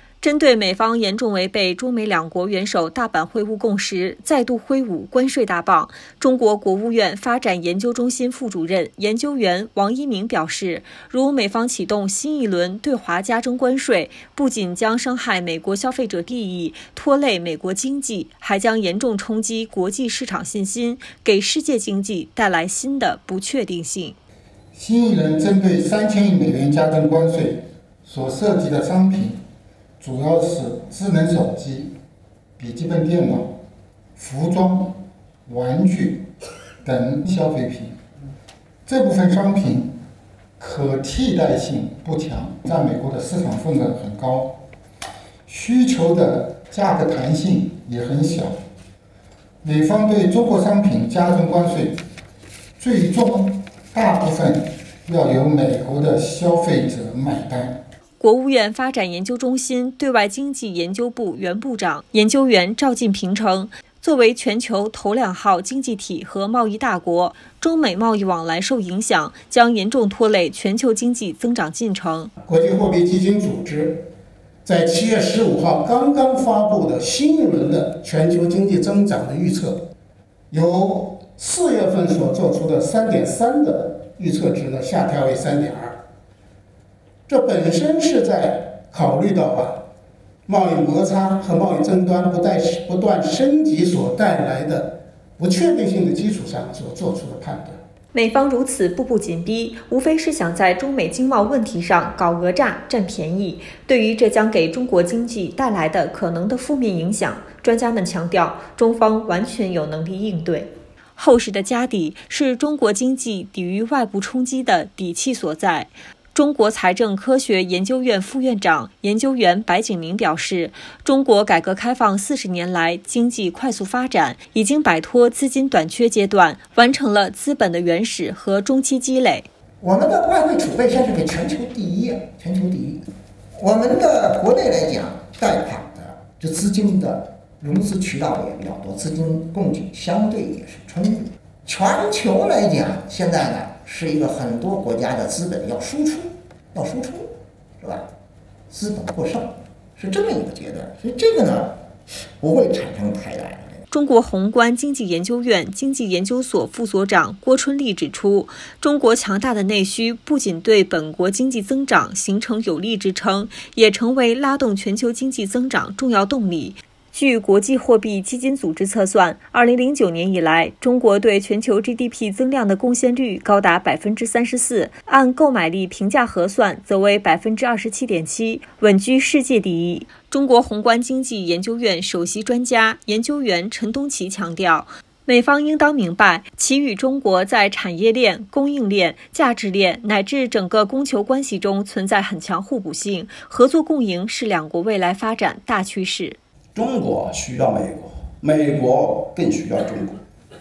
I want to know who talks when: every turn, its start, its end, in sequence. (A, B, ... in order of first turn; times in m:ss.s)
0:00.2-0:24.2 A
0:24.7-0:29.4 B
0:30.0-0:32.0 B
0:32.6-0:33.5 B
0:34.2-0:36.3 B
0:36.8-0:38.0 B
0:38.9-0:40.0 B
0:40.6-0:44.6 B
0:45.5-0:48.6 B
0:49.6-0:52.0 B
0:52.8-0:57.8 B
0:58.2-1:12.3 A
1:12.4-1:14.1 C
1:14.6-1:19.8 C
1:20.5-1:26.0 C
1:27.3-1:29.8 C
1:30.5-1:37.8 C
1:38.1-2:09.5 A
2:09.8-2:13.0 D
2:13.6-2:28.1 D
2:28.7-2:31.8 D
2:32.4-2:33.8 D
2:33.9-3:16.4 A
3:16.8-3:20.2 E